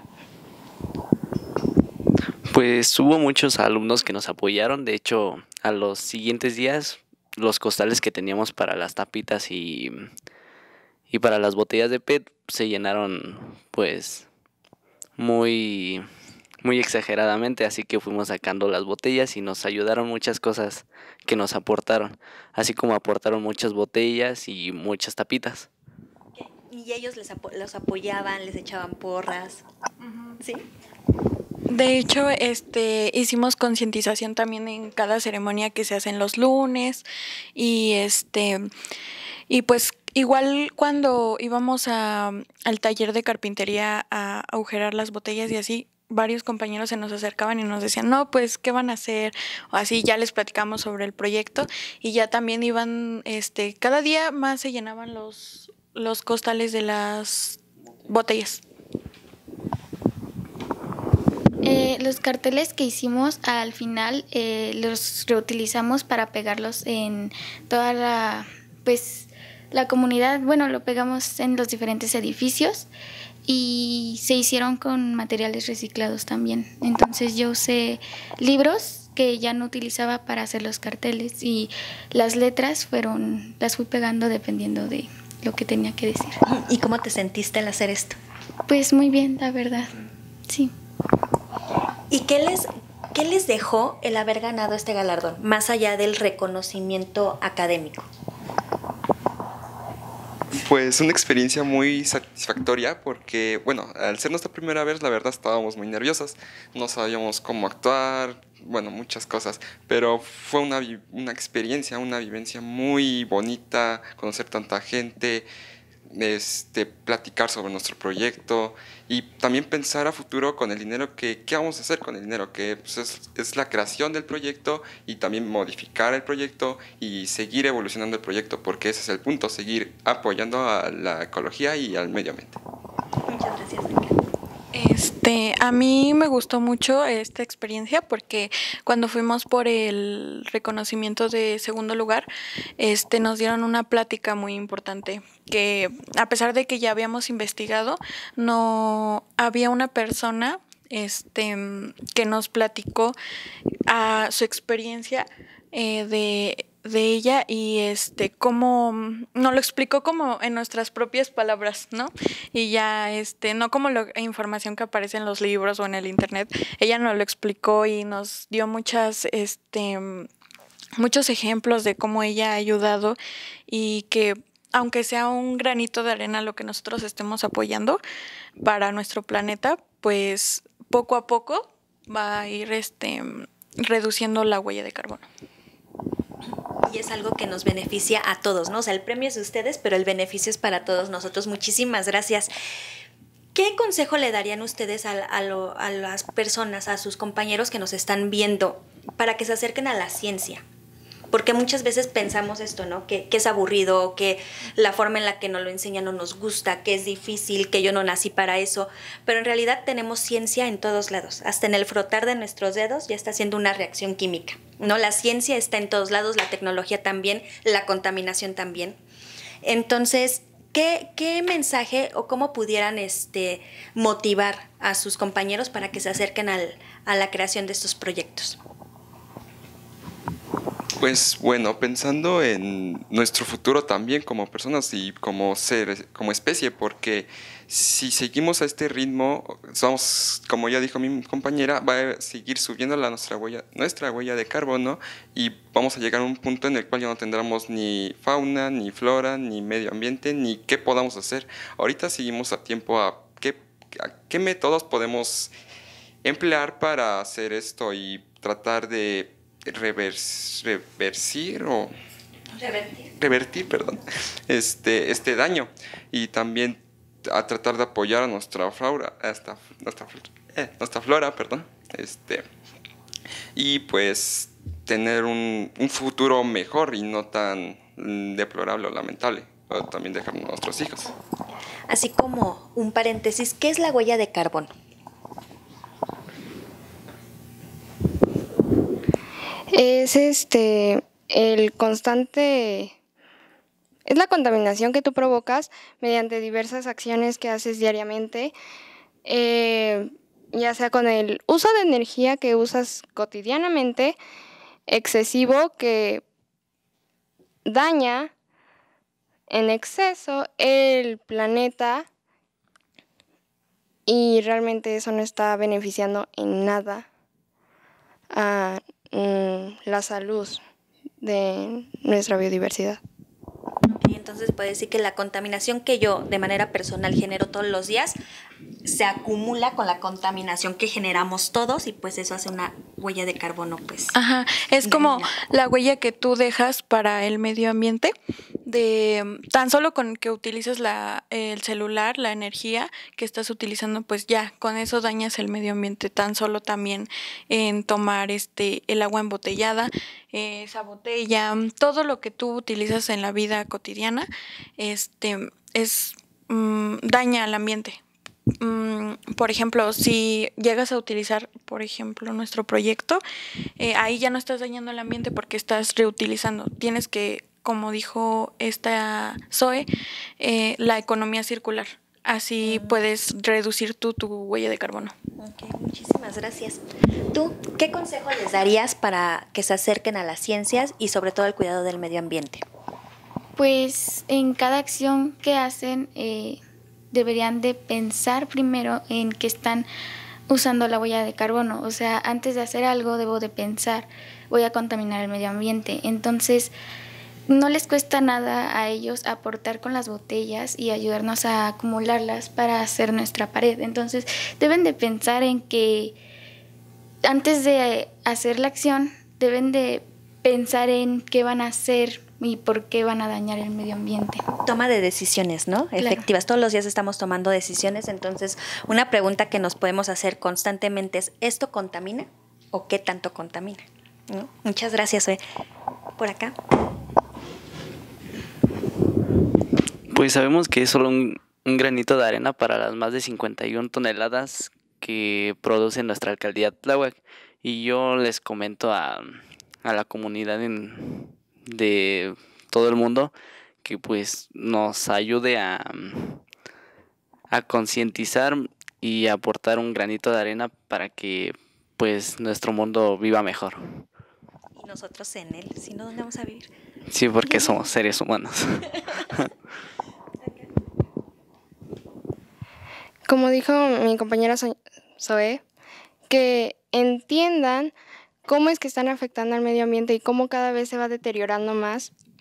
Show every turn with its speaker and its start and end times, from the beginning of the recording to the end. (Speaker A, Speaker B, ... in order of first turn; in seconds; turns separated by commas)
Speaker A: 2.5-10.1, Speaker A: 11.1-14.3, Speaker A: 15.2-16.1, Speaker A: 16.6-25.7, Speaker B: 26.4-29.6, Speaker C: 30.0-30.4, Speaker B: 30.4-30.7, Speaker C: 31.7-38.7, Speaker C: 39.5-58.6, Speaker D: 61.6-72.9, Speaker D: 73.4-86.4, Speaker B: 86.5-88.2, Speaker D: 88.7-89.9, Speaker D: 90.5-90.7, Speaker B: 92.1-98.1, Speaker E: 100.6-115.5, Speaker E: 116.1-132.6, Speaker B: 133.3-134.2, Speaker C: 134.7-153.2, Speaker C: 153.9-170.3, Speaker C: 171.0-173.2, Speaker C: 173.7-178.0, Speaker C: 178.6-185.2, Speaker B: 186.8-192.5, Speaker B: 193.5-200.6, Speaker B: 201.3-219.0, Speaker B: 219.6-228.6, Speaker E: 231.0-255.5, Speaker E: 256.2-261.9, Speaker B: 262.5-263.1, Speaker E: 263.1-272.4, Speaker E: 273.5-281.1, Speaker B: 281.9-284.7, Speaker F: 289.7-292.9, Speaker F: 294.1-298.5, Speaker F: 299.2-304.2, Speaker F: 304.9-306.2, Speaker F: 307.6-308.3, Speaker F: 309.5-312.0, Speaker F: 314.1-317.1, Speaker F: 318.3-320.6, Speaker F: 321.2-323.0, Speaker B: 323.9-328.2, Speaker B: 328.9-334.1, Speaker C: 334.1-338.1, Speaker B: 334.8-335.3, Speaker C: 338.6-358.0, Speaker C: 358.6-363.2, Speaker C: 363.8-369.9, Speaker C: 370.4-375.1, Speaker B: 372.6-373.0, Speaker B: 375.4-376.8, Speaker B: 377.3-382.6, Speaker D: 383.6-386.6, Speaker D: 387.1-389.9, Speaker D: 390.5-396.7, Speaker D: 397.5-406.2, Speaker D: 407.2-414.4, Speaker B: 414.6-425.4, Speaker D: 416.0-416.2, Speaker B: 426.2-426.5, Speaker A: 430.1-446.4, Speaker A: 447.5-454.0, Speaker B: 454.8-456.7, Speaker A: 457.1-459.5, Speaker B: 457.4-457.7, Speaker F: 463.3-465.6, Speaker F: 466.3-467.9, Speaker F: 468.4-472.1